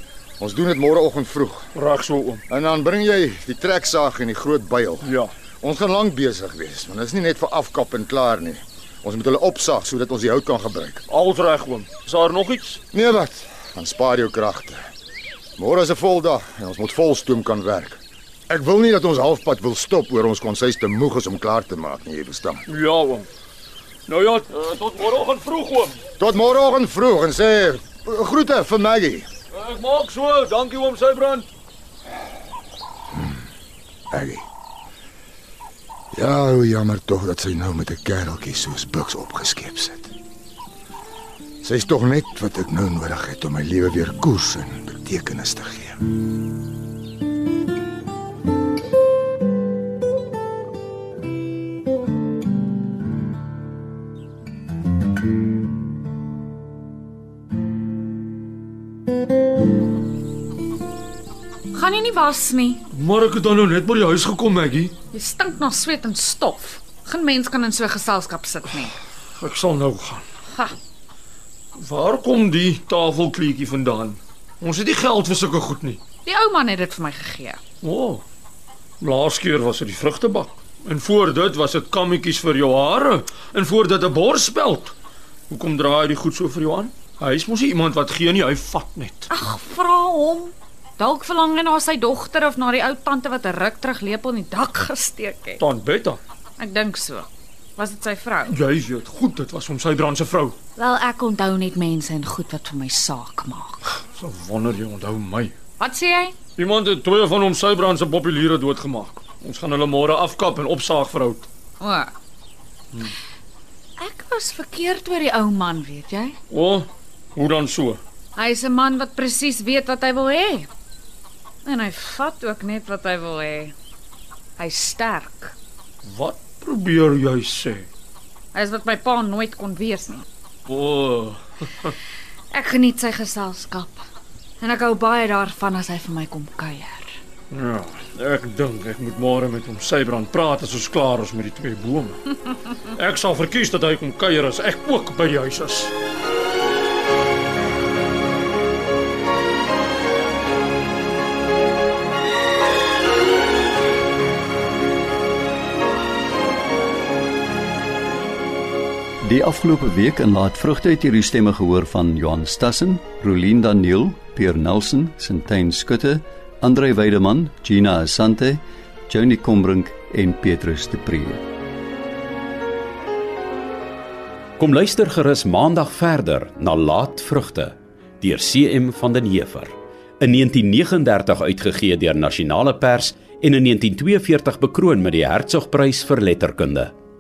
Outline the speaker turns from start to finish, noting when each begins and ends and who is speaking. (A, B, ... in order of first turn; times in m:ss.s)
0:00.4-0:01.7 A
0:01.7-0:02.4 B
0:02.5-0:11.0 A
0:05.0-0:05.3 B
0:11.1-0:12.8 B
0:12.9-0:14.8 A
0:15.6-0:22.6 A
0:22.7-0:23.3 B
0:24.1-0:26.0 B
0:26.2-0:29.3 A
0:29.5-0:31.5 B
0:33.1-0:33.4 A
0:34.1-0:34.5 A
0:36.1-0:40.1 A
0:41.6-0:46.0 A
1:01.7-1:02.8 C
1:02.9-1:05.0 B
1:05.1-1:08.9 C
1:09.4-1:10.2 B
1:11.8-1:16.0 B
1:16.2-1:17.6 C
1:17.8-1:18.2 B
1:19.0-1:24.9 B
1:25.5-1:29.3 B
1:29.3-1:35.6 C
1:35.6-1:36.2 B
1:36.6-1:38.5 C
1:38.5-1:40.6 B
1:40.8-1:43.8 C
1:44.2-1:45.5 B
1:45.8-1:46.4 C
1:46.6-1:51.5 B
1:51.8-1:52.1 C
1:54.0-1:56.4 C
1:56.5-1:58.0 B
1:58.4-2:00.7 C
2:01.6-2:03.7 C
2:04.6-2:05.6 C
2:06.0-2:07.9 B
2:08.5-2:10.2 C
2:10.7-2:11.9 B
2:12.5-2:14.0 C
2:14.6-2:17.2 C
2:17.5-2:25.9 B
2:39.2-2:51.5 D
2:54.6-3:06.9 E